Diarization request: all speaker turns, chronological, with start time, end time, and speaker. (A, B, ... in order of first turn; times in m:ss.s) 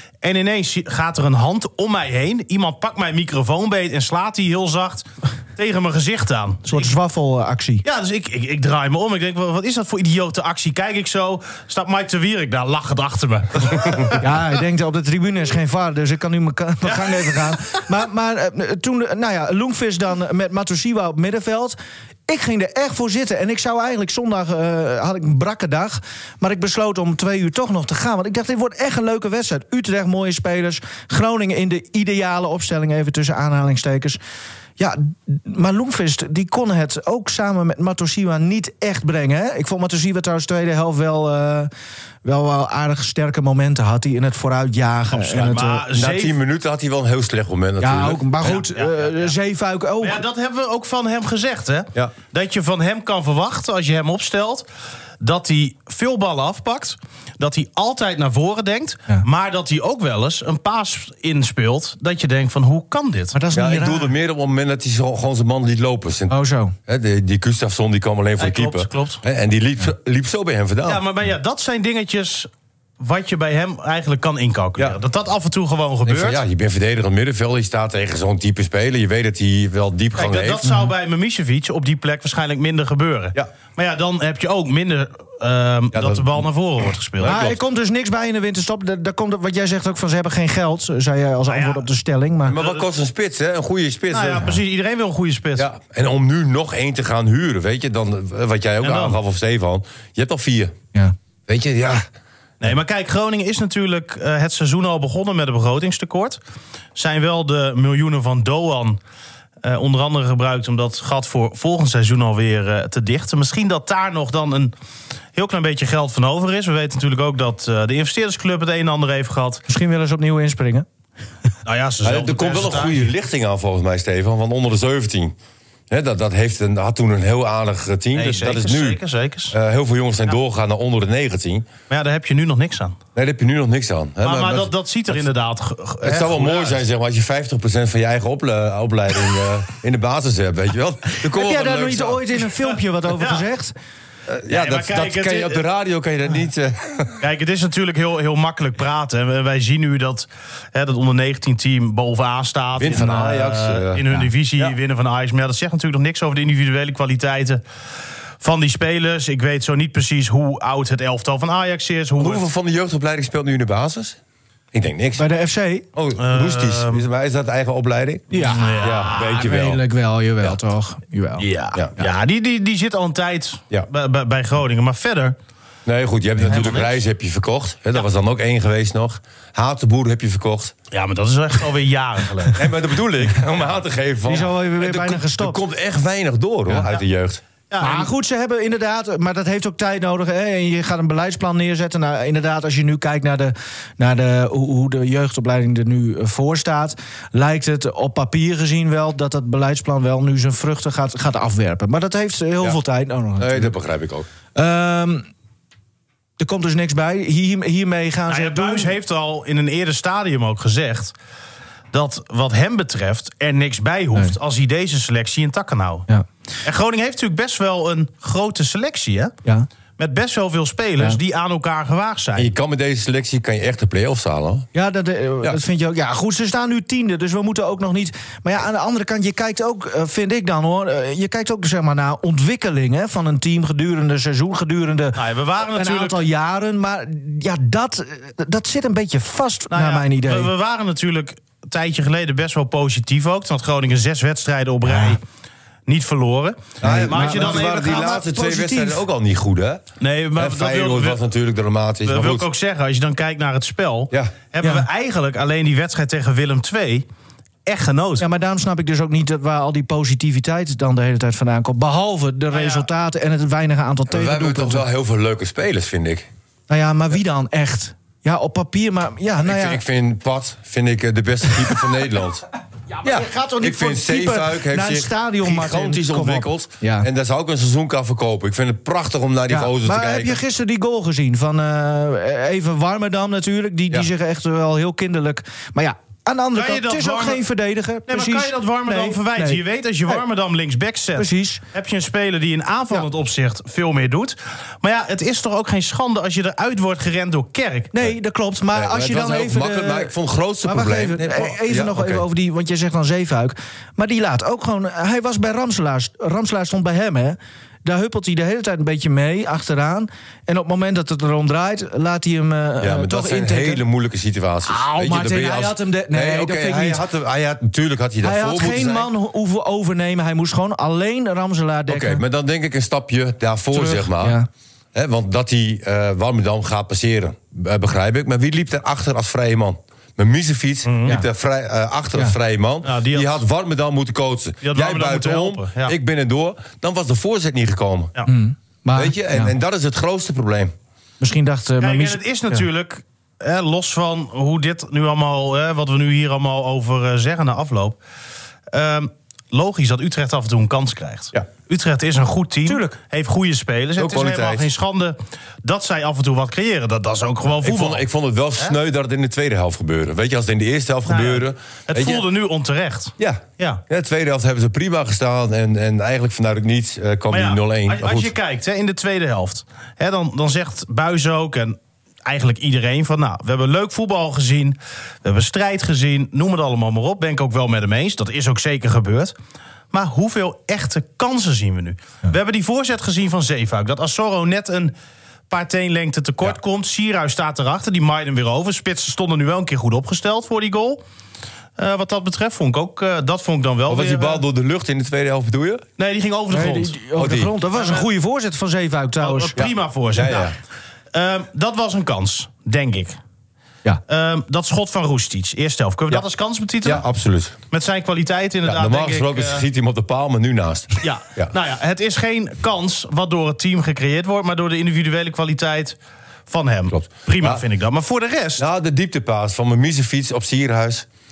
0:00.2-0:06.9 A
0:06.7-0:07.8 B
0:07.8-0:14.2 A
0:14.2-0:34.2 B
0:16.8-0:17.6 A
0:34.8-0:41.7 B
0:42.2-0:45.8 B
0:45.1-0:46.3 A
0:45.9-0:48.3 C
0:47.8-0:50.2 B
0:48.4-0:49.3 A
0:50.0-0:54.6 A
0:55.2-1:03.3 A
1:03.3-1:04.1 B
1:03.5-1:06.3 C
1:06.3-1:06.8 B
1:06.9-1:11.0 C
1:08.4-1:09.2 A
1:10.9-1:16.4 A
1:16.0-1:20.7 C
1:20.2-1:27.5 A
1:25.9-1:26.4 C
1:27.2-1:27.6 C
1:27.2-1:32.6 B
1:31.4-1:31.8 A
1:32.4-1:34.5 C
1:32.6-1:32.8 A
1:34.1-1:35.7 A
1:35.6-1:40.8 C
1:38.8-1:39.2 A
1:41.5-1:42.0 C
1:42.6-1:46.4 A
1:46.9-1:49.0 A
1:49.6-1:54.7 A
1:55.3-1:59.6 A
1:59.7-2:00.8 B
2:01.6-2:03.1 A
2:02.0-2:05.4 C
2:05.9-2:09.0 C
2:08.1-2:09.6 A
2:09.5-2:11.7 C
2:11.9-2:13.0 A
2:13.1-2:15.2 C
2:14.2-2:16.8 A
2:16.0-2:22.2 C
2:21.3-2:23.7 B
2:23.2-2:23.4 A
2:24.3-2:27.2 C
2:24.5-2:25.6 A
2:27.2-2:37.6 A
2:32.8-2:34.7 C
2:38.4-2:42.4 A
2:42.2-2:44.2 C
2:44.7-2:45.2 C
2:45.2-2:45.8 B
2:45.9-2:49.8 C
2:46.2-2:47.0 A
2:48.3-2:51.4 B
2:48.4-2:49.3 A
2:51.4-2:55.3 A
2:55.8-3:00.7 C
2:56.5-2:57.0 A
3:00.9-3:02.6 A
3:02.5-3:07.4 C
3:04.3-3:05.6 B
3:07.7-3:08.1 A
3:07.8-3:23.7 B
3:23.4-3:24.3 C
3:24.5-3:25.3 B
3:26.4-3:28.9 B
3:28.3-3:31.1 A
3:31.9-3:36.1 A
3:36.6-3:39.3 A
3:40.0-3:42.5 A
3:42.4-3:44.7 C
3:44.7-4:00.5 B
3:55.1-3:56.2 A
3:59.7-4:05.2 A
4:04.9-4:05.1 B
4:05.9-4:08.0 A
4:06.8-4:09.8 C
4:06.8-4:09.0 B
4:10.0-4:11.2 A
4:10.4-4:12.5 C
4:12.0-4:17.0 A
4:14.6-4:14.8 B
4:17.6-4:18.2 A
4:18.2-4:24.8 B
4:22.5-4:22.8 A
4:24.1-4:26.3 C
4:26.7-4:29.8 B
4:29.4-4:32.4 C
4:33.0-4:37.1 B
4:33.0-4:40.4 C
4:39.5-4:50.2 B
4:46.5-4:47.4 A
4:48.1-4:57.9 A
4:51.2-4:51.6 B
4:57.9-5:00.1 B
4:58.7-5:02.2 C
5:00.6-5:13.8 B
5:12.8-5:19.1 C
5:14.7-5:17.0 B
5:18.2-5:22.2 B
5:21.9-5:24.4 C
5:23.7-5:24.5 B
5:24.9-5:38.1 C
5:30.8-5:31.2 A
5:32.8-5:33.4 A
5:34.6-5:35.9 A
5:38.2-5:39.5 B
5:38.9-5:40.7 C
5:41.2-5:42.6 B
5:41.8-5:48.0 A
5:48.7-5:58.0 A
5:52.6-5:53.0 B
5:54.0-5:54.7 C
5:57.6-6:02.2 C
6:01.1-6:03.8 A
6:03.2-6:08.3 C
6:07.3-6:19.3 A
6:19.9-6:24.9 A
6:25.5-6:31.0 A
6:31.8-6:34.4 A
6:33.9-6:35.8 C
6:36.0-6:37.0 A
6:36.5-6:39.6 B
6:37.2-6:37.5 C
6:37.7-6:38.1 A
6:39.2-6:40.5 A
6:39.6-6:40.6 C
6:41.1-6:43.2 A
6:44.1-6:47.0 A
6:46.8-6:47.6 C
6:47.7-6:49.6 A
6:48.6-6:51.5 C
6:51.0-6:56.0 A
6:56.5-6:58.6 A
6:56.9-6:57.6 C
6:58.6-7:01.1 C